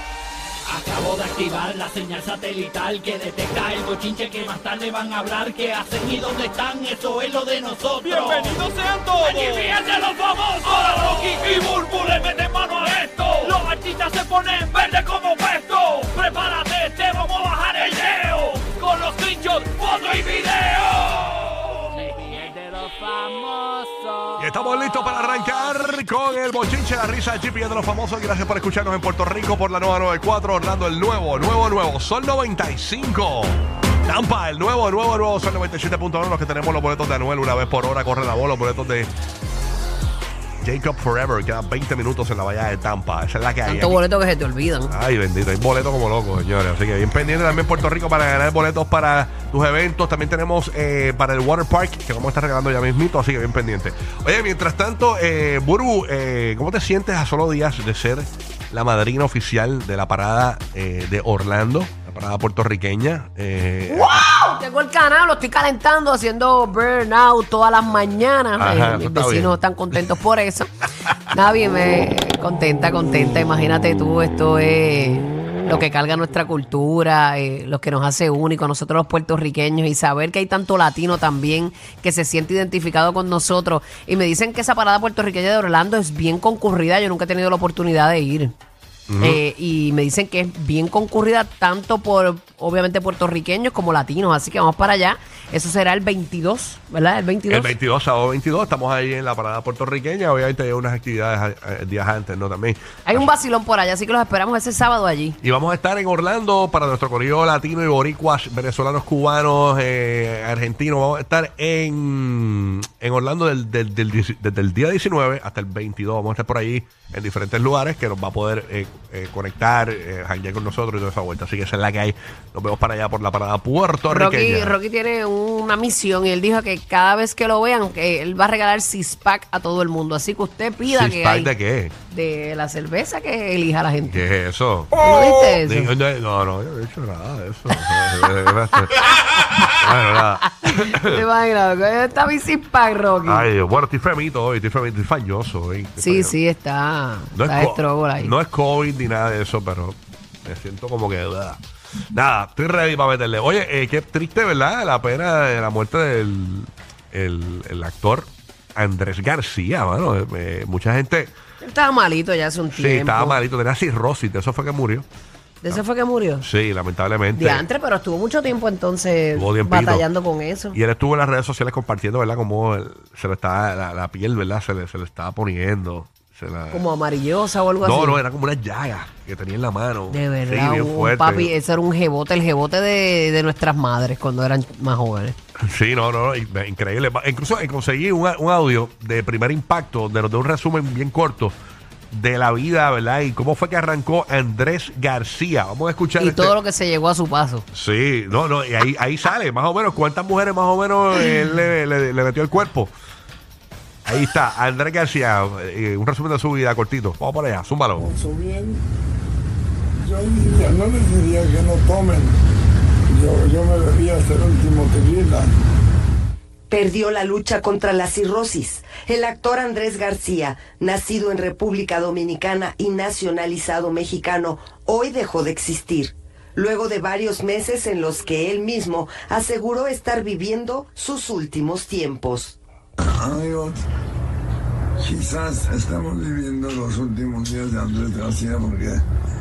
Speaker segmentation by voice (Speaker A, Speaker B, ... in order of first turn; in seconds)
Speaker A: 0.7-24.4
Speaker B: 24.4-39.1, 40.6-44.0, 44.9-64.2, 68.6-70.0, 89.1-89.4, 97.5-103.3, 105.4-124.8, 130.8-131.9, 134.1-141.2, 143.2-146.3, 147.3-151.6, 152.1-161.3, 162.7-165.1, 166.4-167.7, 169.3-170.1, 170.7-176.9, 177.8-181.5, 185.6-191.5, 192.1-196.5, 197.7-202.9, 204.1-208.0
Speaker C: 43.6-44.9, 63.9-70.7, 71.3-88.5, 89.2-97.7, 103.0-105.4, 124.1-131.5, 132.1-134.2, 135.0-135.9, 140.7-143.5, 146.0-148.3, 161.6-163.4, 165.6-166.4, 167.3-170.8, 176.7-178.2, 180.1-185.3, 196.2-197.7
Speaker D: 208.0-208.8, 210.0-212.3, 213.1-215.5, 233.0-233.8, 235.0-239.0
Speaker E: 216.7-232.6